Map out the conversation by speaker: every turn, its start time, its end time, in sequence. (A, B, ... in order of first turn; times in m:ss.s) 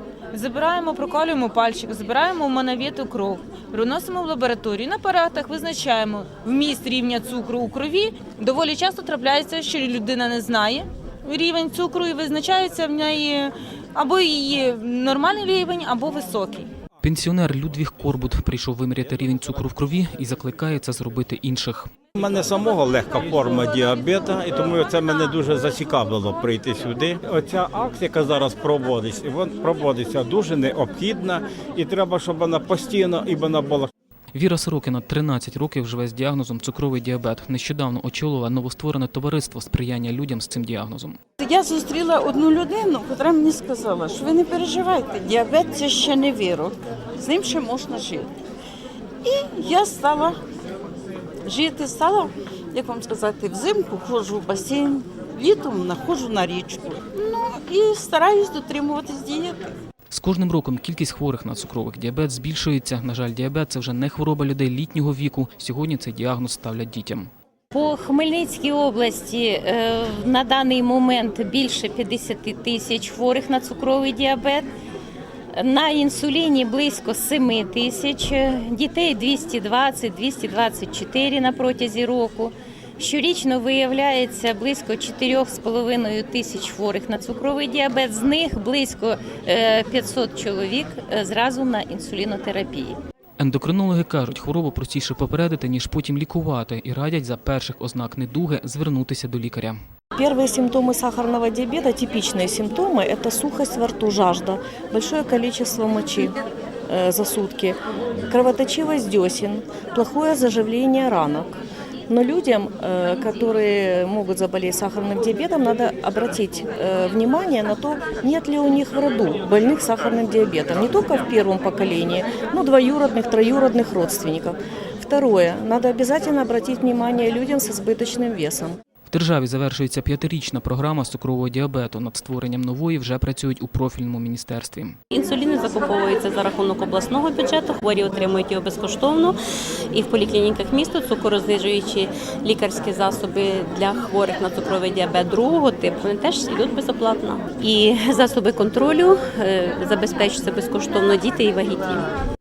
0:00.3-0:16.7 A
0:17.0-0:21.9 B
0:22.2-0:33.9 C
0:34.3-0:41.2 B
0:41.4-0:48.3 D
0:49.2-0:50.4 D
0:51.5-0:59.7 D
1:00.1-1:07.3 B
1:07.7-1:14.6 E
1:15.6-1:33.0 E
1:33.4-1:39.8 B
1:40.1-1:46.3 F
1:46.9-1:47.8 F
1:48.3-1:51.6 F
1:52.1-2:08.8 F
2:09.1-2:15.0 B
2:15.1-2:19.4 G
2:19.9-2:32.0 G